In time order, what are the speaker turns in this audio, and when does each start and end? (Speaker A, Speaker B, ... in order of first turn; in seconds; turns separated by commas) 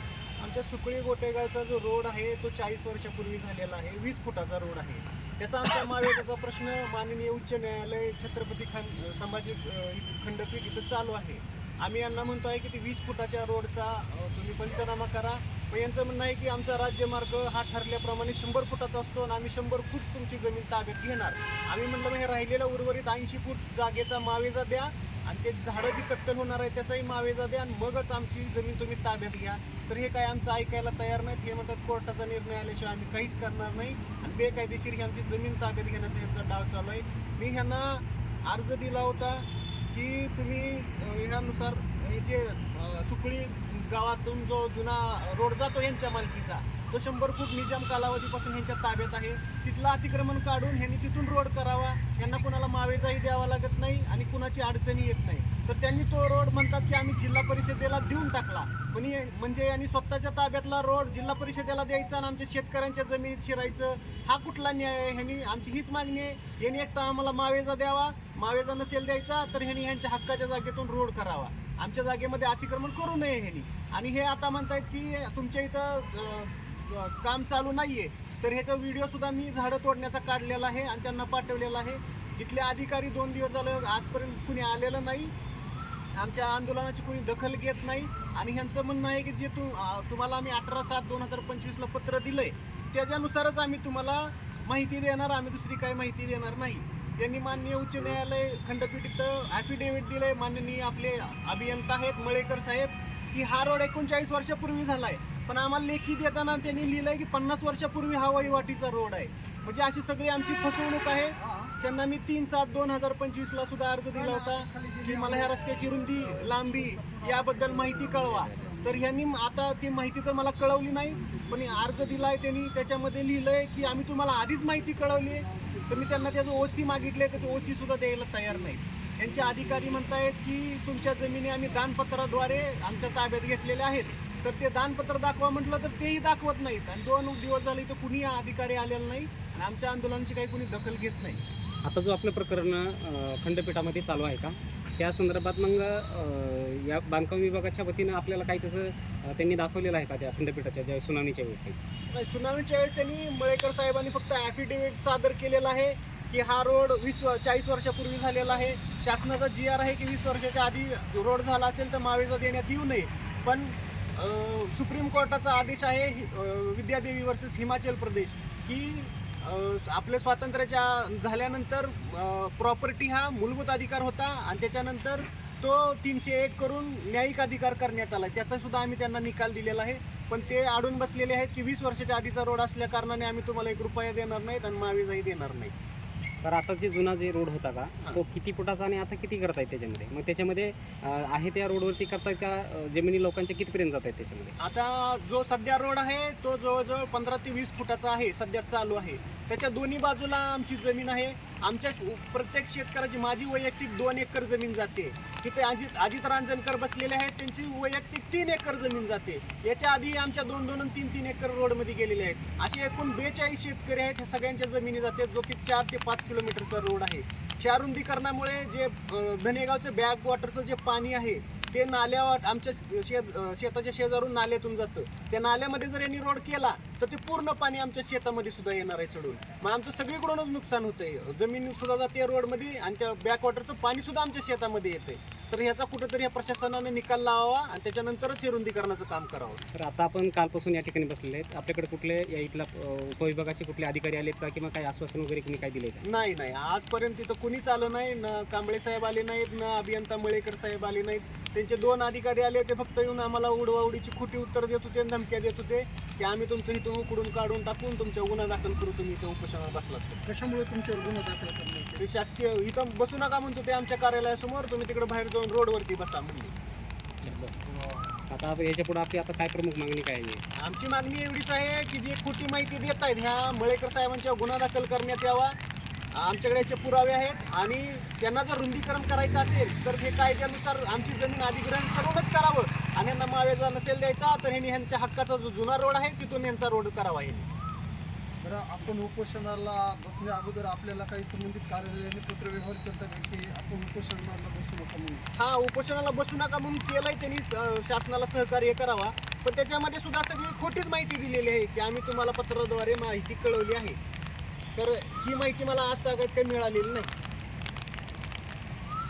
Speaker A: 0.4-85.3, Speaker A: 86.1-141.4, Speaker B: 111.3-111.7, Speaker B: 114.1-119.2, Speaker B: 121.0-122.4, Speaker B: 123.9-127.9, Speaker B: 129.4-130.0, Speaker C: 141.8-151.8, Speaker A: 152.1-185.7, Speaker C: 186.4-194.5, Speaker A: 194.6-239.6, Speaker C: 239.7-246.1, Speaker A: 246.0-260.2, Speaker B: 260.2-262.0, Speaker A: 261.9-266.5, Speaker C: 267.2-267.5, Speaker B: 267.6-268.2, Speaker C: 268.3-270.4, Speaker A: 270.6-275.6, Speaker A: 276.1-287.5, Speaker B: 288.4-295.2, Speaker A: 295.3-304.0, Speaker A: 304.7-307.1